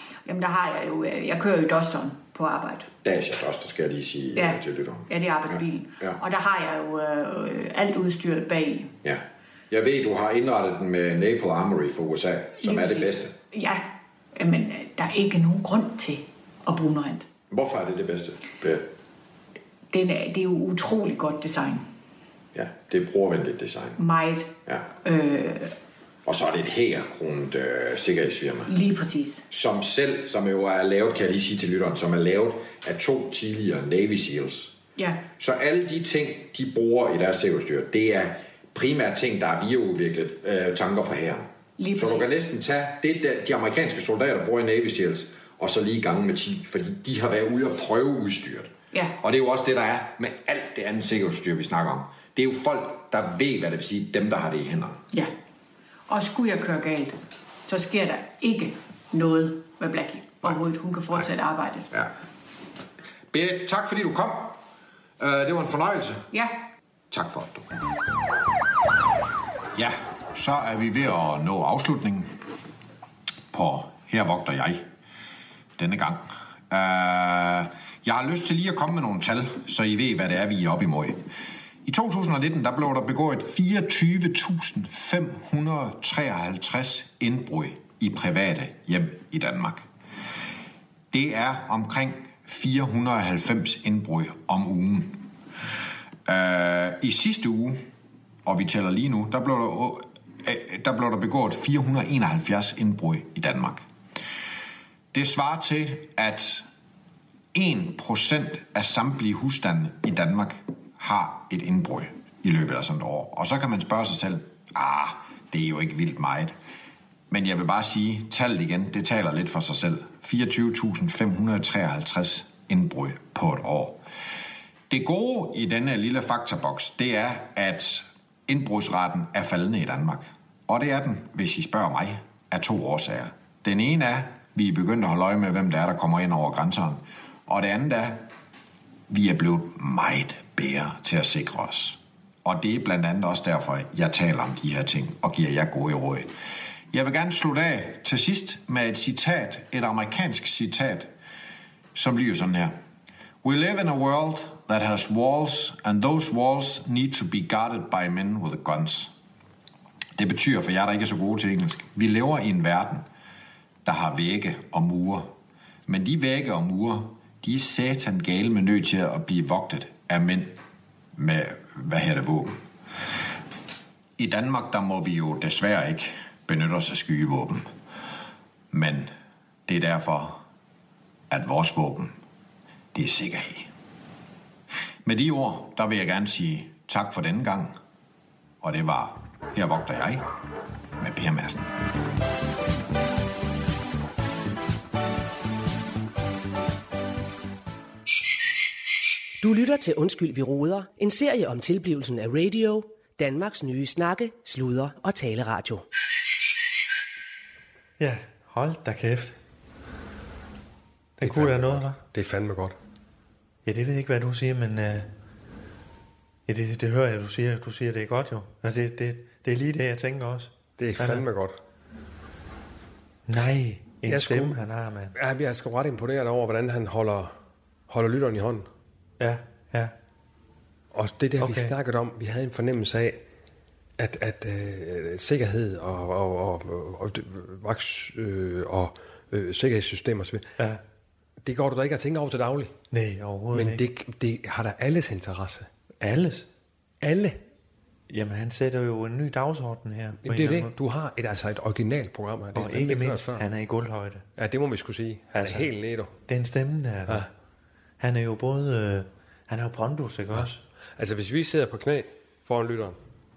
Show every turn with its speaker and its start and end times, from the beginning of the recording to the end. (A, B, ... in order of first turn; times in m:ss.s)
0:00.2-0:02.9 A
0:03.0-0:05.1 B
0:04.4-0:08.9 A
0:09.0-0:13.4 B
0:12.6-0:17.3 A
0:17.5-0:18.9 B
0:19.9-0:21.9 A
0:22.5-0:24.0 B
0:24.0-0:25.7 A
0:26.3-0:28.7 B
0:28.7-0:29.5 A
0:29.5-0:34.8 B
0:35.0-0:35.2 A
0:35.4-0:55.0 B
0:41.8-0:42.3 A
0:56.1-1:01.9 A
1:03.3-1:04.6 B
1:05.2-1:06.3 B
1:06.3-1:06.6 A
1:07.1-1:07.7 B
1:09.8-1:12.3 B
1:13.5-1:14.8 B
1:15.8-1:21.2 B
1:21.8-1:29.9 B
1:31.1-1:35.2 B
1:36.3-1:37.8 B
1:38.4-1:43.8 B
1:45.1-1:46.6 B
1:47.5-1:56.6 B
1:57.3-2:04.0 B
2:04.9-2:18.2 B
2:19.1-2:26.3 B
2:26.9-2:31.1 B
2:31.9-2:32.7 B
2:33.4-2:39.1 B
2:40.2-2:43.1 B
2:43.8-2:45.3 B
2:45.9-2:50.6 B
2:51.2-2:52.6 B
2:54.2-2:57.7 B
2:58.7-2:59.1 B
2:59.7-3:00.4 B
3:01.3-3:02.2 B
3:02.9-3:03.7 B
3:05.0-3:07.8 B
3:08.6-3:10.2 B
3:11.0-3:11.7 B
3:19.4-3:25.9 C
3:28.0-3:29.4 D
3:31.2-3:32.0 D
3:31.2-3:32.8 E
3:33.6-3:35.1 D
3:36.5-3:41.2 D
3:40.8-3:41.6 E
3:43.3-3:45.2 D
3:44.0-3:44.6 E
3:45.2-3:47.3 E
3:47.9-3:48.7 E
3:49.2-3:49.9 D
3:50.9-3:53.2 E
3:51.4-3:51.7 D
3:54.0-4:00.5 E
4:01.4-4:02.8 E
4:02.9-4:03.8 D
4:03.5-4:05.7 E
4:06.0-4:06.5 D
4:07.0-4:07.4 E
4:08.1-4:10.7 D
4:10.2-4:13.4 E
4:12.6-4:14.2 D
4:14.4-4:16.1 E
4:15.3-4:15.7 D
4:16.3-4:17.3 D
4:18.0-4:20.6 D
4:20.3-4:23.0 E